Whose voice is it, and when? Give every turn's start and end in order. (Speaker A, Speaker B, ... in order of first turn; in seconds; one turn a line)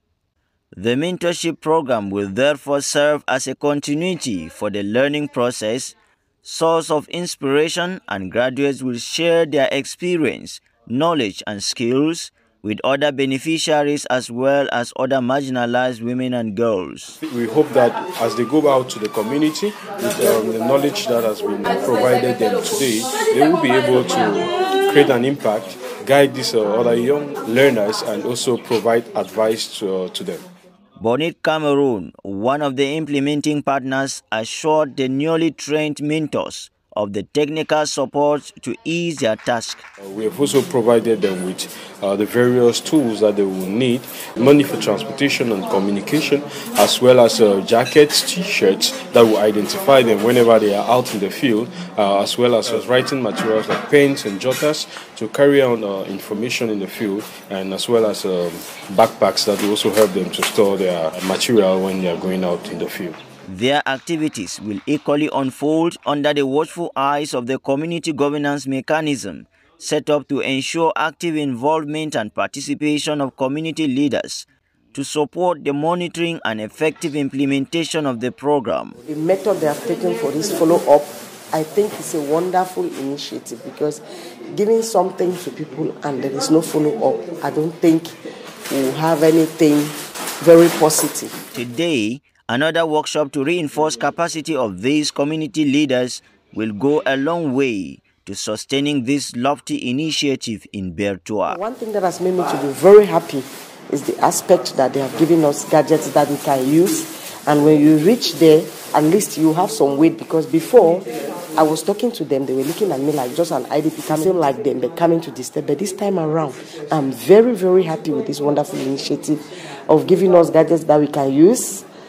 Speaker A: 0.7-17.2
Speaker B: 17.2-30.4
Speaker A: 31.0-39.8
Speaker B: 40.0-63.2
Speaker A: 63.5-79.0
Speaker C: 79.1-88.1
Speaker C: 88.7-91.4
Speaker A: 91.5-101.6
Speaker C: 101.5-121.8